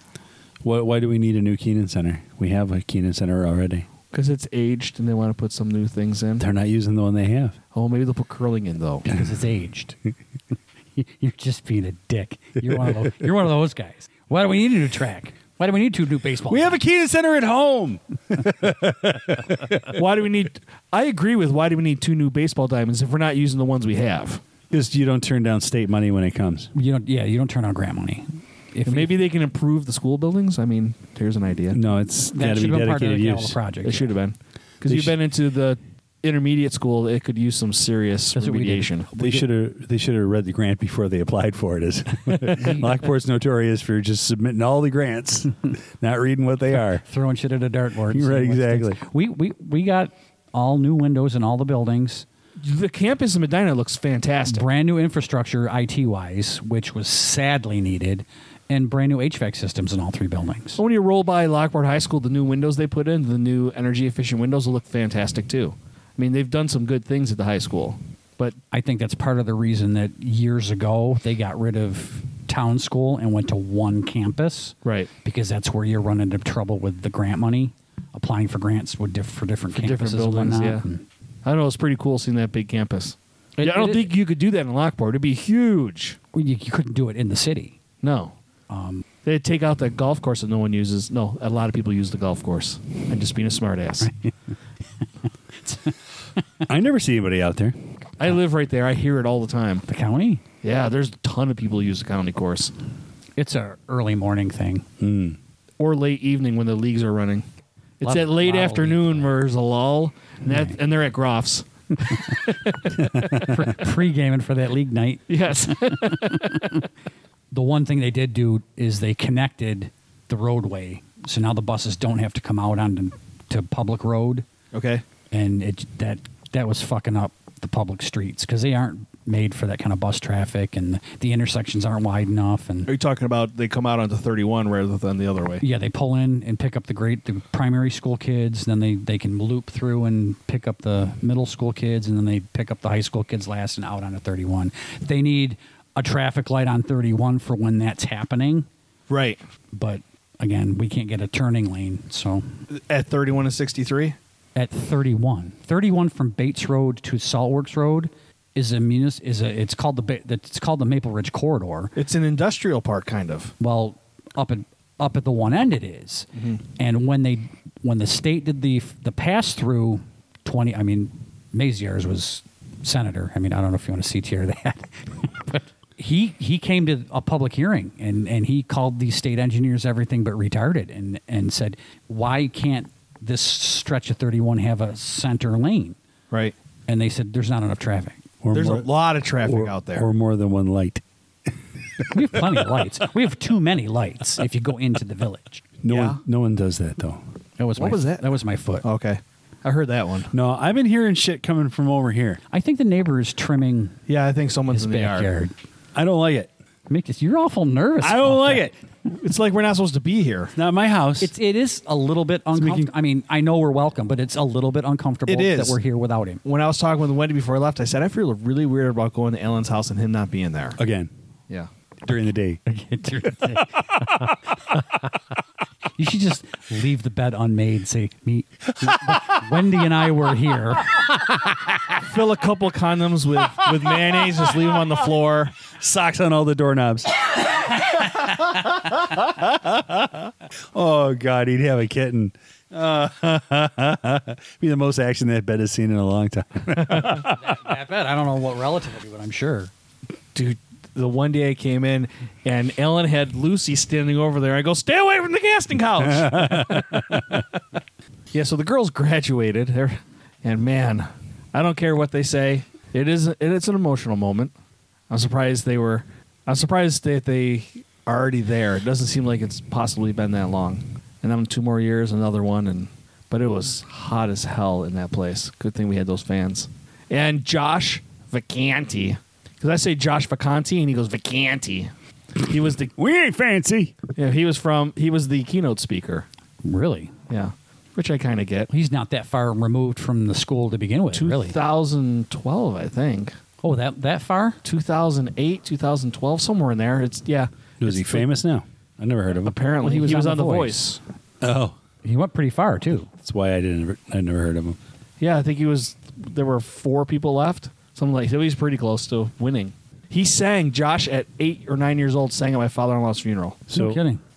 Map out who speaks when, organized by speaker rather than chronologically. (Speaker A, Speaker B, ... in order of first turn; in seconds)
Speaker A: 0.6-3.9, 6.4-7.6, 16.5-20.0, 24.7-26.7, 31.7-33.6, 34.8-35.1, 39.2-47.0, 48.1-49.0, 96.7-97.8, 105.0-105.4, 113.0-113.6, 188.4-188.9, 189.4-191.0, 195.8-197.2, 200.3-202.4, 205.9-206.5, 208.0-208.7, 210.6-211.3, 220.8-221.1, 222.1-222.6, 235.7-247.4, 256.1-257.4, 282.9-284.0, 297.8-299.6, 301.4-301.8, 303.2-304.8, 313.7-314.0
Speaker B: 4.1-6.5, 7.7-9.1, 19.9-24.4, 28.9-31.8, 33.8-39.1, 52.6-54.6, 60.8-68.6, 74.8-75.1, 79.8-80.8, 81.5-86.2, 88.0-88.3, 89.2-94.1, 98.2-99.8, 100.6-102.7, 105.8-107.4, 108.0-112.5, 115.3-116.4, 124.7-125.0, 132.9-135.6, 149.1-149.4, 152.7-154.2, 162.0-163.5, 188.5-190.1, 195.9-196.2, 197.8-198.2, 198.8-200.3, 204.1-205.3, 209.1-210.6, 215.3-215.8, 216.4-220.8, 232.0-235.6, 250.3-257.4, 258.3-264.5, 265.1-282.9, 284.2-286.3, 287.3-288.7, 291.1-293.3, 294.6-297.5, 299.4-301.0, 305.2-313.7
Speaker C: 9.1-10.0, 11.0-16.8, 26.7-29.2, 32.3-34.1, 38.3-39.5, 47.1-52.3, 54.5-60.8, 68.7-81.0, 83.6-84.1, 86.3-87.8, 88.7-89.0, 94.0-94.3, 95.7-95.9, 99.9-100.4, 103.4-104.9, 108.0-109.3, 113.4-116.9, 117.5-124.5, 125.3-132.9, 135.6-148.7, 149.7-152.5, 154.6-161.9, 163.6-186.0, 186.9-188.2, 192.1-195.6, 197.6-198.8, 202.5-204.0, 204.7-205.5, 206.9-208.7, 211.2-216.4, 222.7-223.8, 226.0-231.3, 247.2-249.7, 286.6-287.1, 288.7-291.6, 293.6-294.6, 299.8-300.8, 302.0-303.1, 313.7-314.2